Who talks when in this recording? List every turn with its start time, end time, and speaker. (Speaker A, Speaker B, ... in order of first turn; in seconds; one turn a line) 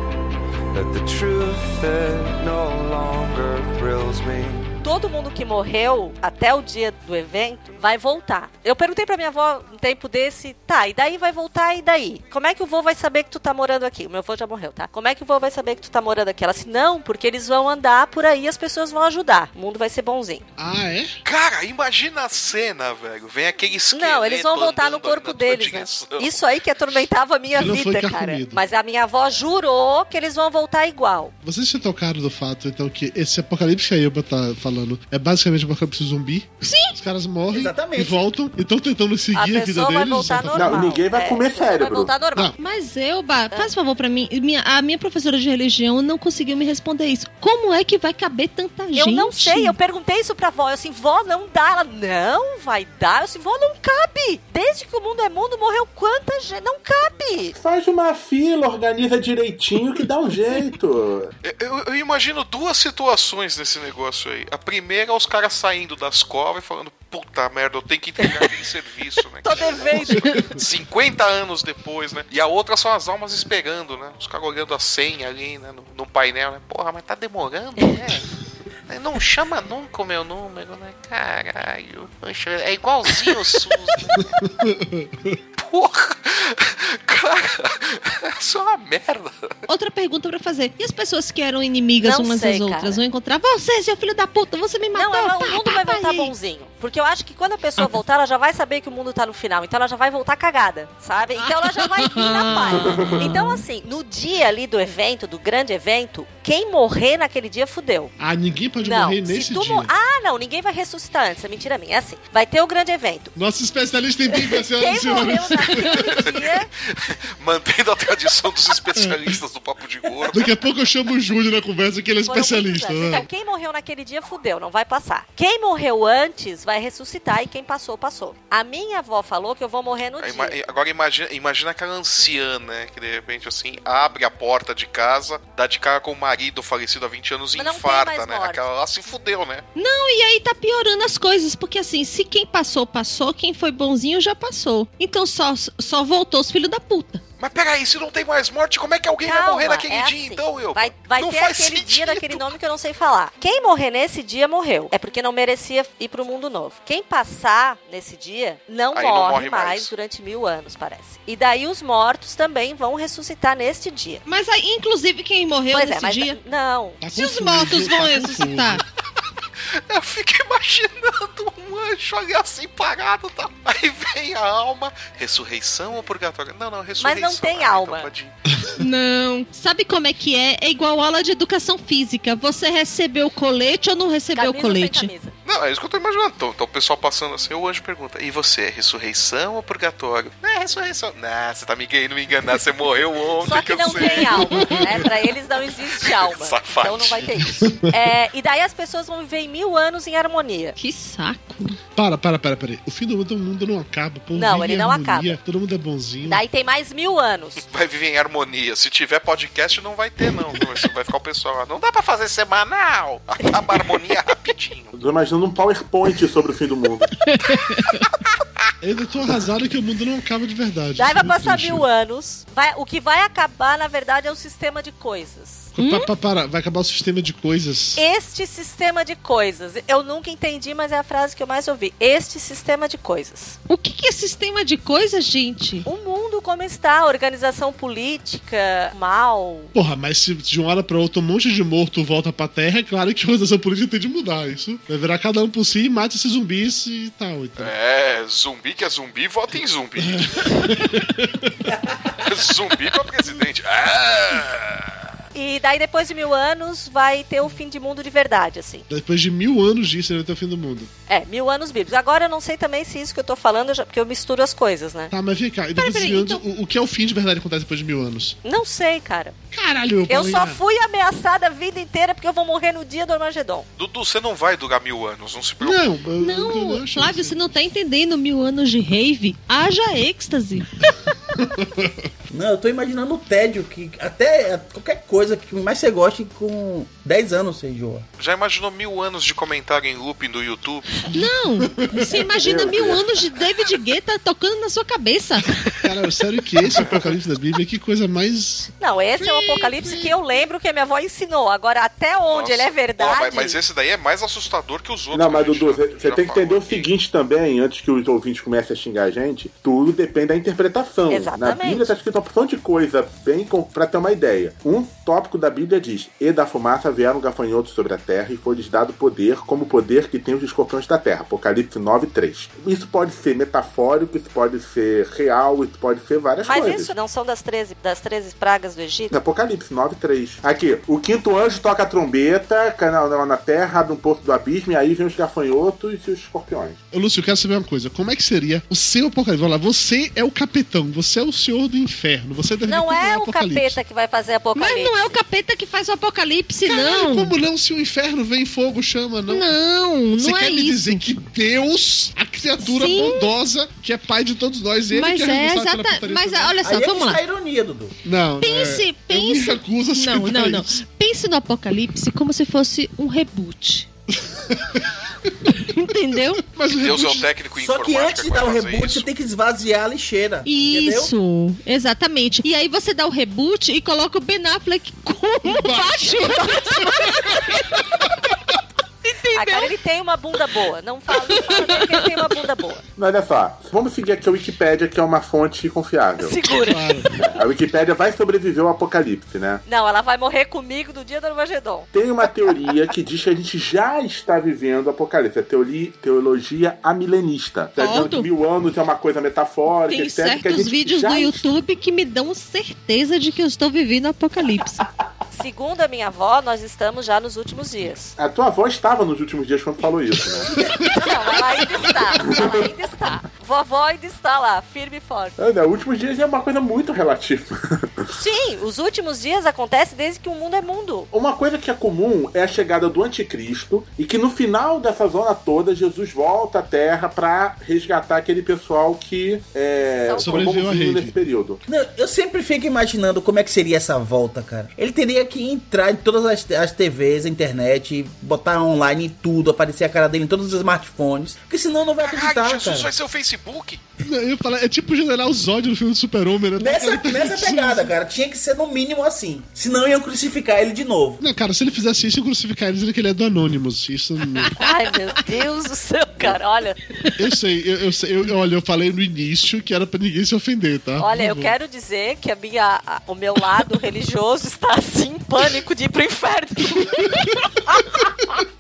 Speaker A: 0.7-4.8
Speaker B: 4.8-20.5
Speaker C: 20.6-21.1
Speaker D: 21.2-26.4
Speaker B: 23.9-31.3
Speaker C: 27.6-28.6
Speaker C: 31.4-41.0
Speaker E: 36.6-37.0
Speaker F: 37.5-38.2
Speaker B: 39.3-42.5
Speaker G: 40.5-42.1
Speaker E: 42.6-49.8
Speaker B: 49.0-57.6
Speaker G: 57.6-61.3
Speaker D: 61.4-78.3
Speaker B: 69.4-70.5
Speaker D: 78.9-84.3
Speaker C: 84.2-85.3
Speaker D: 85.6-89.5
Speaker E: 89.7-96.3
Speaker B: 92.0-93.0
Speaker B: 94.9-108.1
Speaker E: 101.4-103.6
Speaker G: 102.9-103.3
Speaker C: 108.2-109.9
Speaker B: 108.8-113.3
Speaker C: 113.3-116.3
Speaker B: 114.4-116.7
Speaker D: 116.2-120.5
Speaker C: 119.0-119.4
Speaker C: 120.3-123.3
Speaker B: 122.2-130.6
Speaker D: 130.2-139.7
Speaker B: 137.6-138.6
Speaker E: 139.8-147.2
Speaker D: 147.4-152.5
Speaker B: 149.2-164.2
Speaker D: 158.9-159.9
Speaker E: 164.3-166.4
Speaker B: 165.7-167.0
Speaker C: 167.0-168.8
Speaker E: 167.1-168.8
Speaker D: 169.9-178.3
Speaker B: 177.0-178.1
Speaker E: 178.8-185.1
Speaker B: 184.3-185.4
Speaker D: 185.4-195.2
Speaker B: 193.4-200.8
Speaker C: 194.6-194.9
Speaker D: 195.9-197.6
Speaker C: 197.6-197.9
Speaker E: 200.8-201.8
Speaker C: 201.9-206.4
Speaker B: 204.3-205.4
Speaker B: 206.2-207.6
Speaker D: 207.6-214.9
Speaker G: 214.9-217.1
Speaker E: 217.3-218.1
Speaker C: 218.8-221.9
Speaker B: 221.0-225.7
Speaker C: 225.7-228.0
Speaker E: 225.8-226.1
Speaker B: 228.0-233.6
Speaker E: 233.7-235.9
Speaker B: 235.8-239.7
Speaker C: 239.7-247.7
Speaker D: 247.6-250.3
Speaker C: 250.0-251.5
Speaker D: 252.2-254.9
Speaker B: 255.3-258.9
Speaker C: 258.9-260.9
Speaker B: 261.1-265.1
Speaker C: 265.1-268.4
Speaker E: 265.8-266.4
Speaker B: 265.8-266.3
Speaker B: 268.4-269.4
Speaker C: 269.5-270.6
Speaker B: 270.1-273.7
Speaker D: 273.8-275.8
Speaker C: 275.6-277.5
Speaker E: 276.2-280.7
Speaker C: 281.4-281.9
Speaker F: 282.3-288.1
Speaker D: 288.2-291.1
Speaker E: 291.1-295.6
Speaker C: 291.6-292.1
Speaker G: 292.4-293.1
Speaker C: 295.8-300.1
Speaker B: 298.8-303.6
Speaker D: 302.3-306.9
Speaker G: 305.1-326.9
Speaker B: 311.1-311.9
Speaker B: 326.4-329.2
Speaker G: 329.1-336.8
Speaker C: 336.9-343.8
Speaker B: 342.7-345.1
Speaker E: 344.6-347.4
Speaker C: 346.6-349.5
Speaker E: 349.3-351.1
Speaker C: 350.2-356.6
Speaker E: 352.6-353.3
Speaker E: 354.9-357.2
Speaker F: 356.6-357.9
Speaker C: 358.0-360.8
Speaker E: 358.4-363.9
Speaker C: 364.2-365.5
Speaker E: 365.6-366.4
Speaker C: 366.4-367.3
Speaker D: 366.8-369.1
Speaker F: 367.6-371.1
Speaker E: 370.4-378.0
Speaker C: 375.4-378.0
Speaker E: 379.0-379.7
Speaker B: 379.3-382.8
Speaker E: 381.1-382.1
Speaker G: 383.0-386.4
Speaker B: 386.2-387.2
Speaker C: 386.6-387.2
Speaker G: 387.2-389.6
Speaker B: 389.7-391.9
Speaker G: 391.9-401.5
Speaker E: 397.8-398.3
Speaker E: 399.7-404.8
Speaker B: 405.3-408.1
Speaker G: 408.2-410.5
Speaker B: 410.9-415.4
Speaker G: 412.2-412.7
Speaker G: 415.4-418.0
Speaker B: 418.1-421.1
Speaker G: 421.1-431.6
Speaker B: 430.0-430.6
Speaker C: 430.2-431.1
Speaker F: 431.7-442.9
Speaker D: 442.0-443.8
Speaker C: 444.0-447.9
Speaker F: 446.6-451.2
Speaker C: 451.2-454.6
Speaker B: 454.6-456.8
Speaker C: 457.2-461.6
Speaker B: 461.0-468.4
Speaker C: 466.8-467.4